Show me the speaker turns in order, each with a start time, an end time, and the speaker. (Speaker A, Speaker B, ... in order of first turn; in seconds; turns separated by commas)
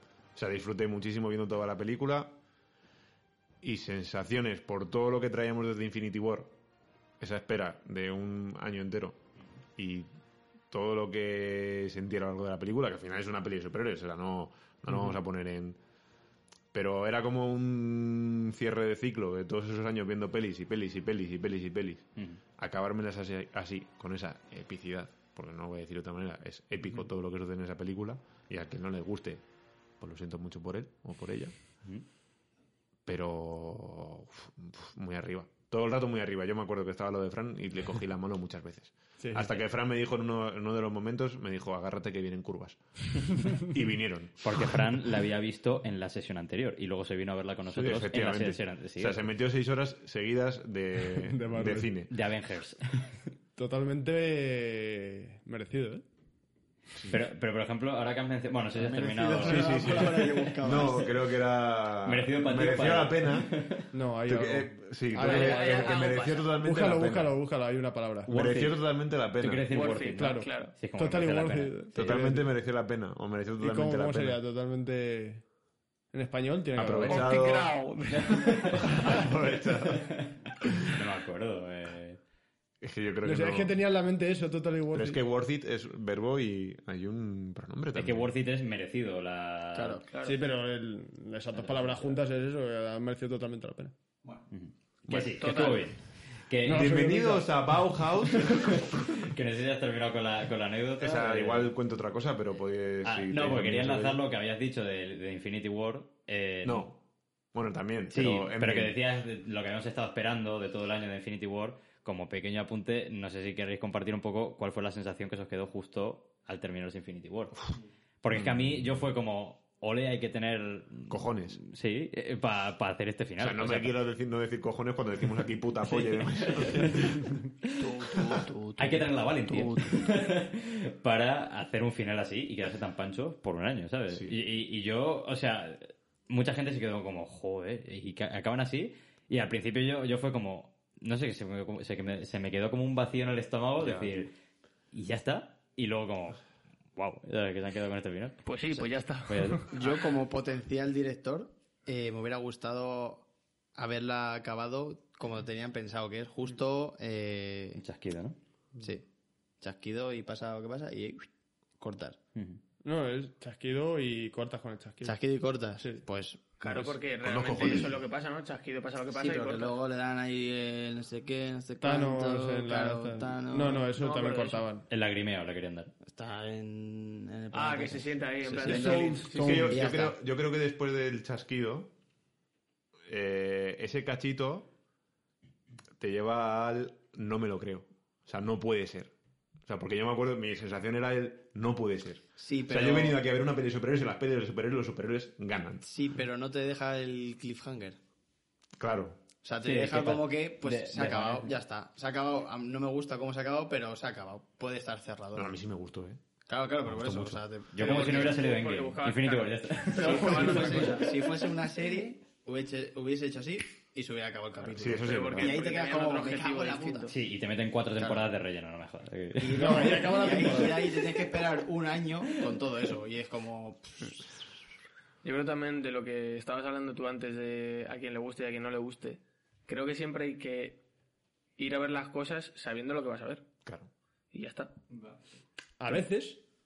Speaker A: 0.3-2.4, Speaker A: 3.6-6.5, Speaker A: 7.2-9.2, Speaker A: 9.8-10.1, Speaker A: 10.7-15.8, Speaker A: 16.7-29.4, Speaker A: 30.0-31.5, Speaker A: 33.1-44.8, Speaker B: 39.2-39.5, Speaker C: 44.4-49.3, Speaker A: 47.7-52.1, Speaker B: 51.0-51.9, Speaker C: 52.1-53.2, Speaker B: 53.6-56.0, Speaker C: 57.1-61.0, Speaker D: 58.8-61.1, Speaker A: 59.4-63.5, Speaker C: 62.0-63.9, Speaker B: 63.9-65.7, Speaker A: 64.3-67.4, Speaker E: 65.2-66.5, Speaker B: 66.6-68.3, Speaker A: 68.3-69.9, Speaker C: 68.3-68.8, Speaker C: 69.4-72.3, Speaker E: 69.7-70.8, Speaker B: 70.2-72.5, Speaker A: 72.0-74.4, Speaker B: 73.6-75.4, Speaker B: 76.1-77.3, Speaker A: 76.8-77.8, Speaker E: 77.0-78.9, Speaker A: 78.8-80.1, Speaker C: 79.9-82.2, Speaker A: 82.8-83.7, Speaker B: 83.2-85.2, Speaker A: 84.9-88.3, Speaker C: 88.0-90.0, Speaker D: 89.7-90.0, Speaker E: 90.1-90.4, Speaker B: 90.2-93.9, Speaker C: 91.5-92.2, Speaker C: 94.5-97.0, Speaker A: 95.1-95.4, Speaker E: 95.4-95.9, Speaker B: 96.6-97.5, Speaker A: 96.7-99.2, Speaker C: 98.4-101.7, Speaker A: 101.0-104.2, Speaker C: 103.0-106.9, Speaker A: 106.6-107.0, Speaker A: 107.5-109.0, Speaker C: 108.1-124.0, Speaker A: 118.3-118.8, Speaker A: 121.1-121.6, Speaker A: 123.4-127.4, Speaker C: 125.9-128.2, Speaker E: 127.8-130.1, Speaker C: 128.8-144.3, Speaker A: 143.8-144.1, Speaker C: 144.9-146.4, Speaker C: 147.0-148.4, Speaker E: 148.4-149.9, Speaker C: 149.3-149.7, Speaker D: 149.7-157.8, Speaker C: 157.8-158.4, Speaker D: 158.8-159.1, Speaker D: 159.6-161.3, Speaker D: 161.8-162.2, Speaker B: 162.8-165.2, Speaker D: 165.0-167.0, Speaker E: 166.6-169.8, Speaker A: 167.2-168.1, Speaker D: 169.1-173.9, Speaker B: 171.8-174.9, Speaker E: 173.9-174.7, Speaker C: 174.9-175.9, Speaker D: 176.0-180.2, Speaker E: 177.5-179.7, Speaker B: 178.6-179.8, Speaker A: 179.4-181.9, Speaker A: 183.1-184.7, Speaker A: 186.0-189.1, Speaker A: 189.7-195.9, Speaker D: 192.4-193.2, Speaker D: 195.8-198.0, Speaker A: 198.8-199.2, Speaker D: 199.4-205.6, Speaker C: 199.6-201.5, Speaker A: 205.3-206.2, Speaker D: 206.5-208.4, Speaker A: 206.9-207.4, Speaker C: 207.7-211.2, Speaker E: 207.8-211.2, Speaker D: 209.9-217.1, Speaker A: 214.7-215.7, Speaker E: 215.0-217.2, Speaker C: 217.1-220.2, Speaker D: 218.0-218.3, Speaker D: 219.4-224.2, Speaker B: 219.5-221.0, Speaker E: 225.2-230.8, Speaker E: 231.6-233.5, Speaker A: 233.7-233.9, Speaker E: 234.3-234.7, Speaker B: 235.8-236.4